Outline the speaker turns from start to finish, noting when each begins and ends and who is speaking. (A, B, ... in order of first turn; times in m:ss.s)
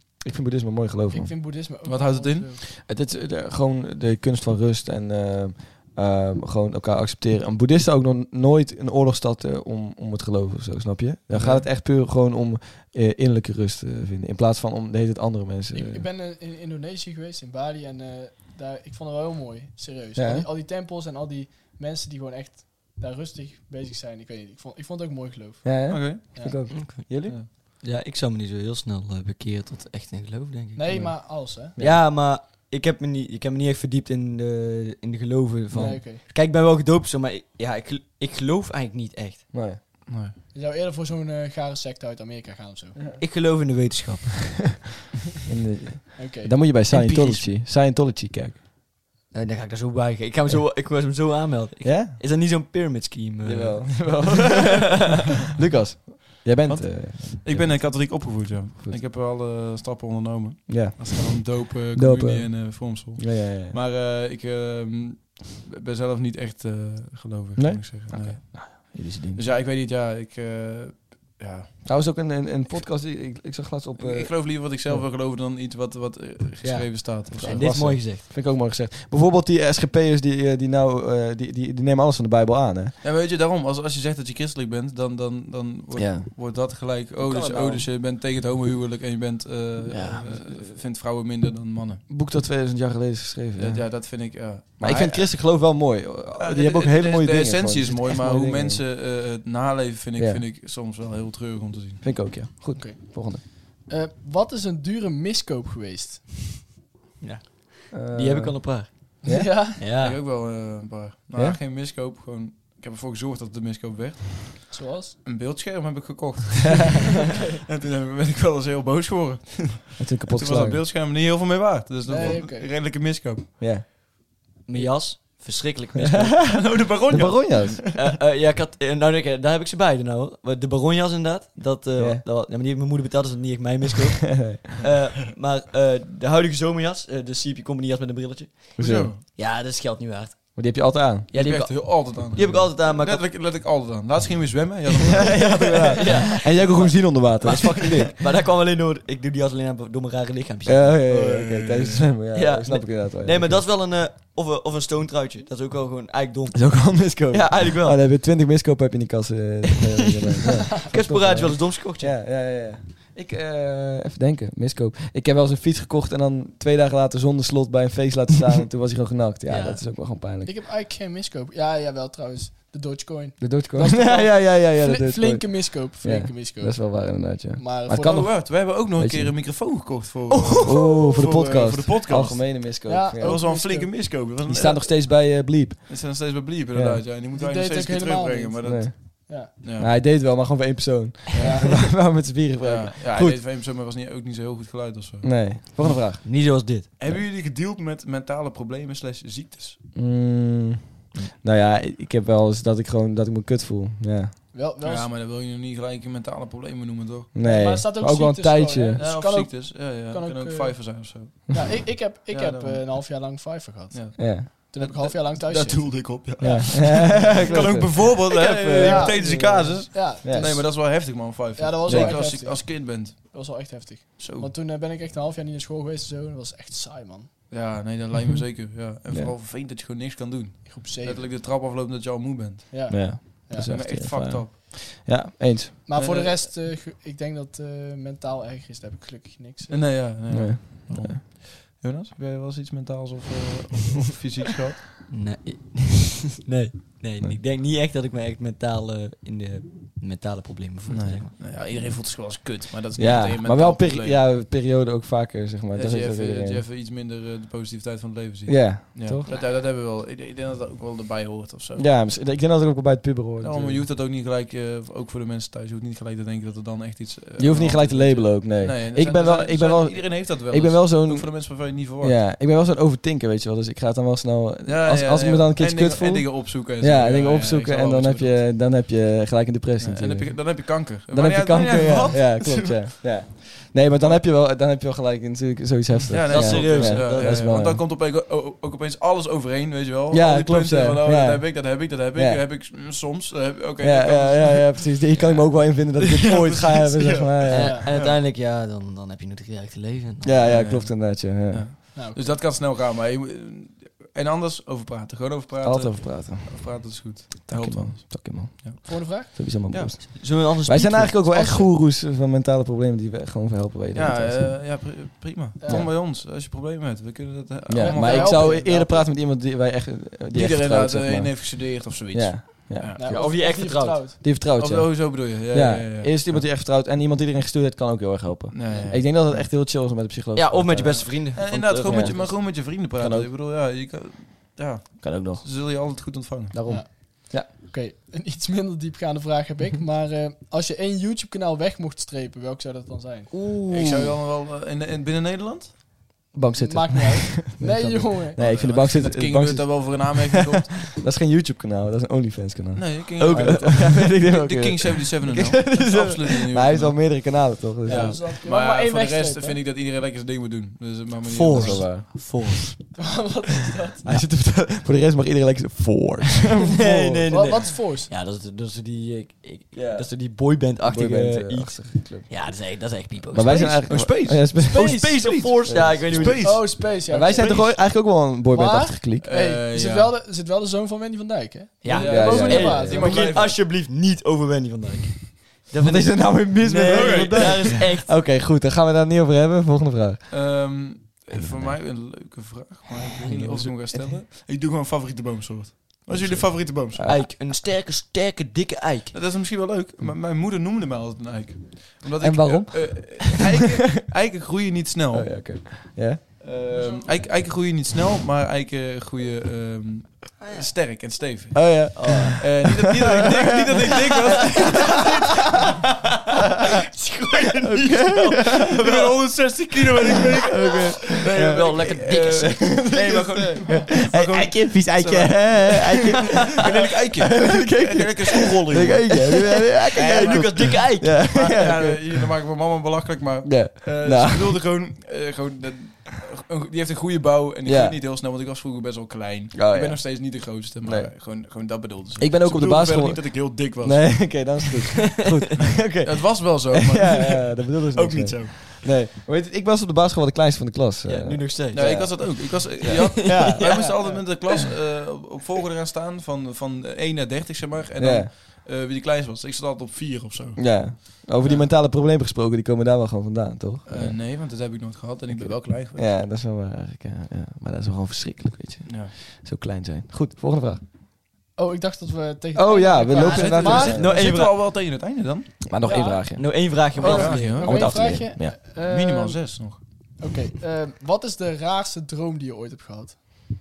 0:00.2-0:01.4 A
0:01.1-0:02.6 B
0:01.8-0:02.5 C
0:02.7-0:16.0 A
0:11.3-0:11.6 C
0:15.7-0:26.6 B
0:20.2-0:20.4 A
0:25.6-0:27.4 A
0:25.9-0:26.4 C
0:26.7-0:30.8 D
0:27.2-0:27.5 C
0:30.8-0:31.7 B
0:30.9-0:32.0 A
0:31.8-0:39.5 D
0:35.7-0:36.0 A
0:35.8-0:36.2 B
0:39.5-0:39.8 A
0:40.1-0:40.4 C
0:40.5-0:43.0 B
0:43.2-0:44.6 D
0:45.5-0:48.6 A
0:46.2-0:46.6 B
0:46.9-0:47.5 D
0:49.3-0:55.1 D
0:51.8-0:52.2 A
0:53.4-0:55.0 A
0:55.6-0:59.0 A
0:56.6-1:11.8 C
1:00.7-1:01.2 A
1:01.9-1:03.7 A
1:07.6-1:09.4 A
1:11.8-1:15.0 A
1:14.0-1:17.8 C
1:16.6-1:18.2 D
1:17.3-1:22.9 A
1:23.0-1:32.0 C
1:25.9-1:26.3 A
1:27.2-1:27.9 D
1:29.8-1:30.7 A
1:32.1-1:38.8 A
1:33.6-1:35.6 C
1:36.4-1:42.1 C
1:42.0-1:43.4 A
1:42.7-1:46.7 B
1:47.2-1:49.2 D
1:47.9-1:49.7 A
1:49.2-1:49.9 B
1:49.8-1:50.2 D
1:49.9-1:54.7 C
1:54.7-1:55.2 B
1:55.2-1:57.0 C
1:57.6-2:03.5 C
2:00.0-2:00.8 A
2:02.1-2:02.7 B
2:03.6-2:03.8 A
2:04.6-2:06.6 D
2:06.0-2:07.8 A
2:06.4-2:07.9 C
2:07.9-2:20.7 D
2:12.0-2:12.2 A
2:18.8-2:19.2 C
2:18.8-2:19.1 A
2:20.5-2:21.3 A
2:21.3-2:25.8 C
2:21.3-2:23.3 D
2:25.0-2:28.1 A
2:25.0-2:31.0 D
2:30.6-2:33.7 A
2:31.1-2:32.1 C
2:32.3-2:38.0 D
2:36.5-2:50.5 A
2:40.9-2:42.1 D
2:49.5-2:58.3 B
2:53.4-2:59.3 A
2:58.0-3:05.4 C
3:00.3-3:01.3 B
3:00.6-3:03.5 A
3:02.8-3:03.9 B
3:04.4-3:06.2 A
3:05.9-3:09.9 C
3:06.7-3:07.0 A
3:07.3-3:09.5 B
3:08.6-3:13.4 A
3:11.3-3:11.8 C
3:11.4-3:11.8 B
3:12.6-3:16.1 C
3:15.2-3:16.2 A
3:16.0-3:16.9 D
3:17.0-3:19.8 C
3:20.0-3:24.3 A
3:24.5-3:25.1 B
3:24.8-3:27.3 C
3:27.3-3:29.0 A
3:27.4-3:40.9 B
3:29.0-3:33.3 C
3:33.9-3:43.2 C
3:34.2-3:34.5 A
3:36.4-3:38.0 A
3:38.3-3:39.4 D
3:40.2-3:40.6 A
3:41.6-3:47.3 B
3:41.8-3:42.2 A
3:44.2-3:44.5 C
3:47.5-3:54.6 C
3:49.1-3:49.3 A
3:50.6-3:51.3 B
3:52.7-3:53.7 B
3:52.9-3:55.8 A
3:55.9-4:00.1 B
3:55.9-3:56.7 C
3:59.7-4:04.8 C
4:00.3-4:01.2 A
4:05.1-4:11.3 D
4:10.9-4:14.4 C
4:13.0-4:16.6 A
4:15.7-4:22.0 C
4:18.5-4:19.3 A
4:21.8-4:23.9 A
4:23.4-4:32.2 C
4:27.4-4:47.8 A
4:34.6-4:38.5 C
4:39.8-4:42.6 C
4:41.5-4:42.7 D
4:43.9-4:44.2 C
4:45.9-4:54.9 C
4:46.3-4:47.5 D
4:50.1-4:52.4 A
4:53.8-4:57.9 A
4:56.2-4:56.8 C
4:57.0-4:57.9 B
4:57.5-5:00.4 D
4:57.9-4:58.2 C
5:00.2-5:01.7 A
5:00.4-5:09.0 C
5:01.9-5:02.4 B
5:05.6-5:14.8 A
5:08.8-5:09.6 B
5:09.6-5:10.0 C
5:10.0-5:11.7 D
5:13.9-5:18.6 C
5:15.6-5:15.9 B
5:17.7-5:23.0 A
5:17.8-5:19.1 B
5:20.3-5:23.2 C
5:23.0-5:24.2 B
5:23.0-5:24.2 D
5:24.2-5:31.2 A
5:24.5-5:26.5 C
5:28.5-5:29.4 C
5:30.3-5:32.4 D
5:30.8-5:36.6 C
5:31.8-5:33.3 A
5:35.0-5:35.4 A
5:36.5-5:37.5 A
5:36.6-5:43.3 B
5:43.3-5:44.1 D
5:43.7-5:46.1 C
5:46.3-5:58.3 A
5:46.6-5:48.4 B
5:48.4-5:50.8 C
5:52.7-6:02.2 C
5:53.2-5:54.2 D
5:57.8-5:59.6 B
6:01.3-6:02.8 D
6:01.5-6:02.0 A
6:03.0-6:04.2 B
6:04.0-6:07.5 A
6:06.7-6:16.6 D
6:07.3-6:08.1 B
6:09.7-6:10.3 A
6:10.8-6:12.3 A
6:13.3-6:19.3 A
6:13.4-6:17.7 C
6:14.7-6:15.3 B
6:16.4-6:23.2 B
6:19.2-6:20.2 C
6:21.8-6:28.1 D
6:21.8-6:23.6 C
6:22.0-6:23.2 A
6:25.8-6:30.3 A
6:26.9-6:27.9 C
6:30.3-6:37.1 C
6:31.3-6:31.8 A
6:33.2-6:33.8 D
6:36.2-6:37.2 A
6:36.3-6:39.1 D
6:39.1-6:45.7 C
6:42.2-6:44.0 A
6:45.1-6:46.4 A
6:46.4-6:55.1 C
6:46.7-6:47.0 D
6:50.4-6:50.7 D
6:51.5-6:55.0 A
6:51.9-6:52.4 D
6:54.4-6:55.6 D
6:56.9-7:02.9 D
6:57.7-6:58.6 A
6:58.0-7:09.2 C
7:00.4-7:01.6 A
7:02.4-7:06.5 A
7:06.4-7:06.7 D
7:07.2-7:12.0 A
7:09.9-7:24.6 C
7:09.9-7:11.6 D
7:13.4-7:14.6 A
7:17.6-7:17.9 A
7:19.5-7:21.1 A
7:22.2-7:34.0 A
7:25.5-7:28.6 C
7:28.1-7:28.4 D
7:31.0-7:34.7 D
7:31.7-7:41.7 C
7:38.0-7:38.3 A
7:40.6-7:44.2 A
7:43.8-7:46.1 C
7:45.3-7:50.8 A
7:48.8-7:49.1 C
7:51.6-7:54.0 B
7:52.5-7:54.1 A
7:53.1-7:55.6 C
7:53.9-7:54.6 D
7:55.6-7:56.7 A
7:55.8-7:56.2 B
7:56.3-7:57.9 D
7:57.0-8:03.2 B
7:57.0-7:58.2 C
7:57.4-7:58.6 A
7:58.8-7:59.8 C